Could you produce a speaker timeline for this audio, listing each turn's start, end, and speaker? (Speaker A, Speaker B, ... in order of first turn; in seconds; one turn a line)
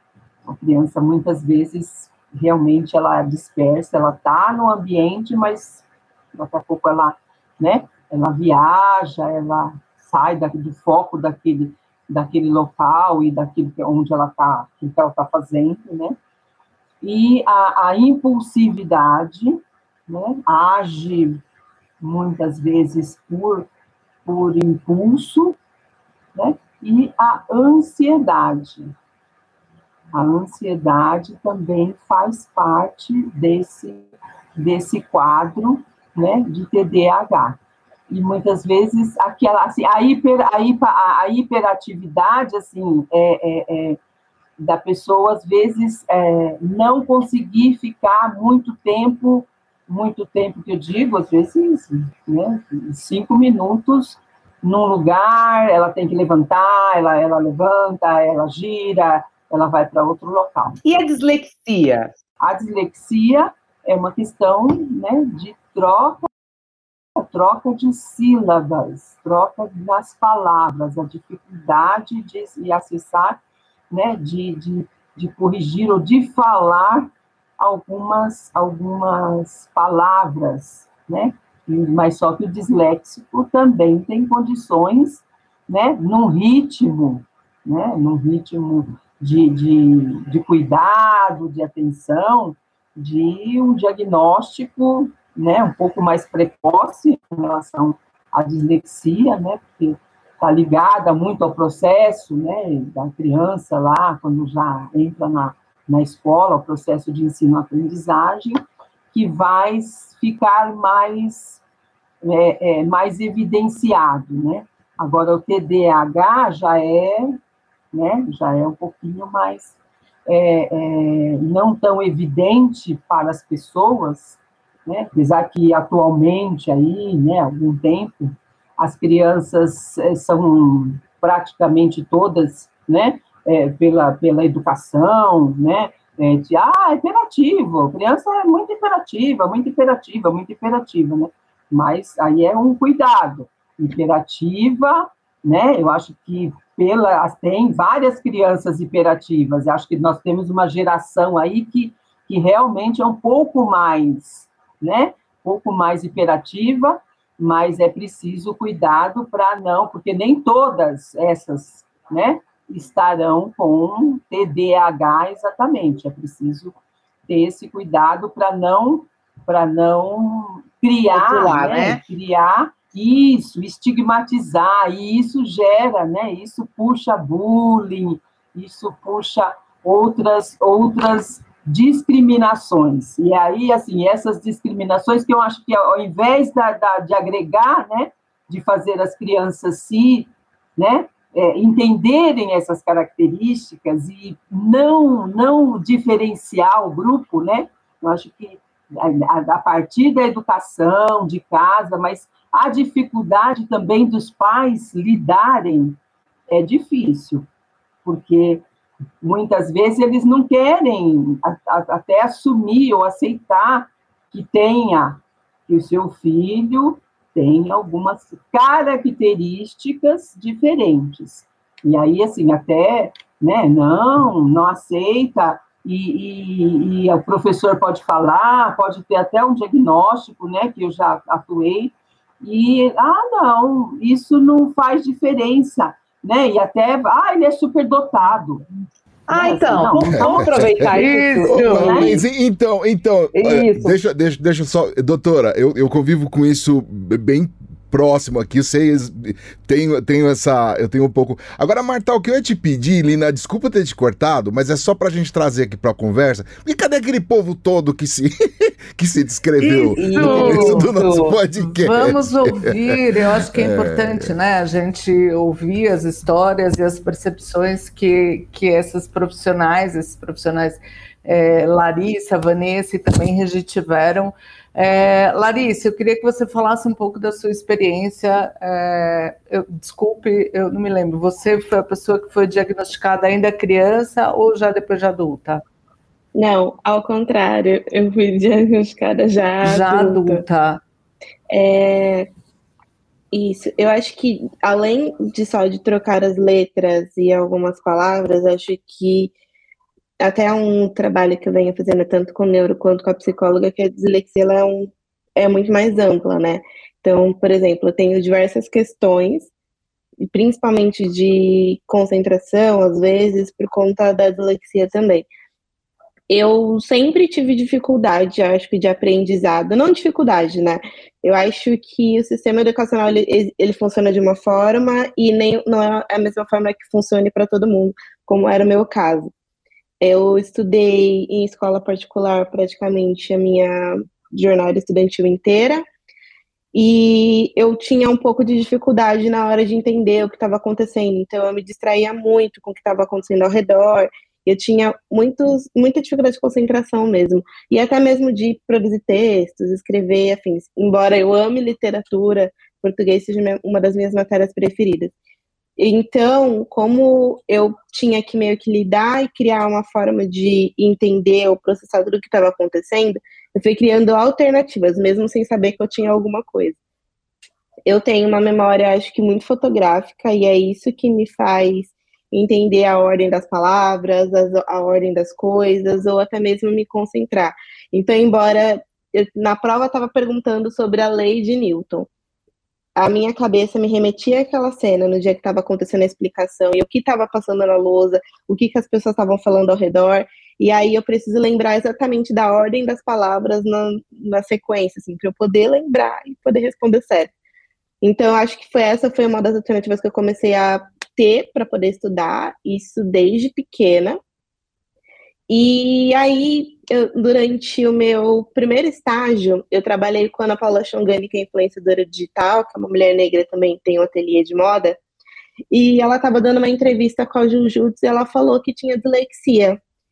Speaker A: 0.5-16.2
Speaker A: 17.0-21.4
Speaker A: 22.0-23.7
Speaker A: 24.2-25.6
Speaker A: 26.3-28.9
Speaker A: 30.1-34.0
Speaker A: 34.6-37.6
Speaker A: 38.1-44.0
Speaker A: 44.6-60.8
Speaker B: 60.8-62.1
Speaker A: 62.4-66.3
Speaker A: 67.2-73.4
Speaker A: 73.9-108.6
Speaker A: 109.1-111.6
Speaker A: 112.2-117.4
Speaker A: 117.9-119.7
Speaker A: 120.3-166.8
Speaker A: 167.3-206.0
Speaker B: 171.1-172.0
Speaker A: 206.5-207.5
Speaker A: 208.0-208.6
Speaker A: 209.2-238.7
Speaker B: 239.3-242.2
Speaker A: 239.3-240.6
Speaker C: 240.0-240.9
Speaker D: 240.9-242.0
Speaker C: 241.5-264.3
Speaker A: 241.7-242.2
Speaker B: 243.3-244.0
Speaker D: 259.6-261.0
Speaker B: 259.9-261.4
Speaker D: 261.5-285.6
Speaker E: 286.3-290.4
Speaker D: 289.6-290.8
Speaker E: 291.5-292.3
Speaker E: 293.3-299.3
Speaker E: 300.2-309.5
Speaker E: 310.3-315.3
Speaker E: 316.3-329.3
Speaker E: 330.0-335.8
Speaker E: 336.7-355.1
Speaker E: 355.8-366.8
Speaker E: 367.9-382.1
Speaker E: 382.9-397.3
Speaker E: 398.0-404.2
Speaker E: 405.5-415.0
Speaker E: 415.7-419.8